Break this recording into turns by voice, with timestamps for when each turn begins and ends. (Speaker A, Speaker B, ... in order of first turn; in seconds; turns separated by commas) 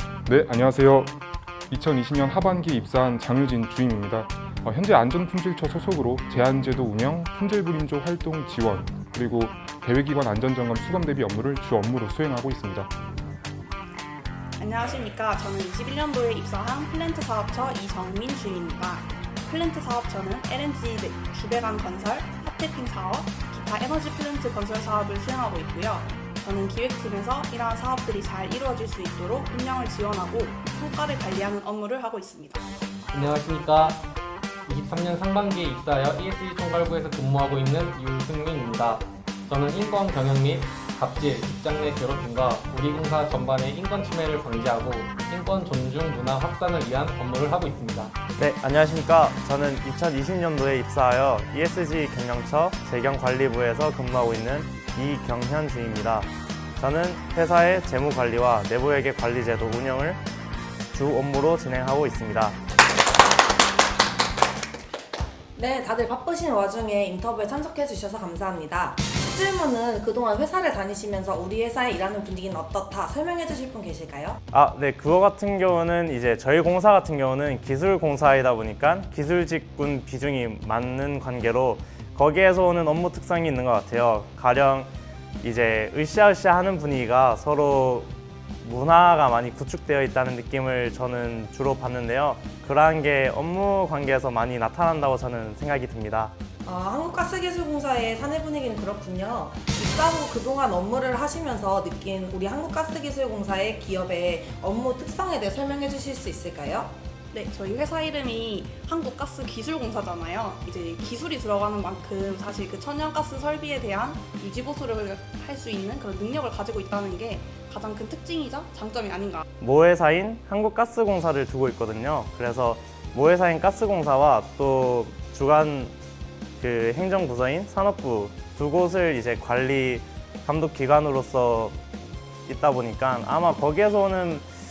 Speaker A: 0.2-1.1, Speaker A: 1.7-12.9, Speaker B: 14.6-32.7, Speaker C: 33.1-34.0, Speaker C: 34.6-48.1, Speaker D: 48.4-60.2, Speaker D: 60.9-62.6, Speaker E: 65.5-74.4, Speaker D: 74.5-84.9, Speaker D: 85.4-88.1, Speaker D: 88.6-96.3, Speaker E: 96.6-106.9, Speaker B: 107.3-119.5, Speaker D: 119.6-125.9, Speaker D: 126.6-131.8, Speaker D: 132.5-134.4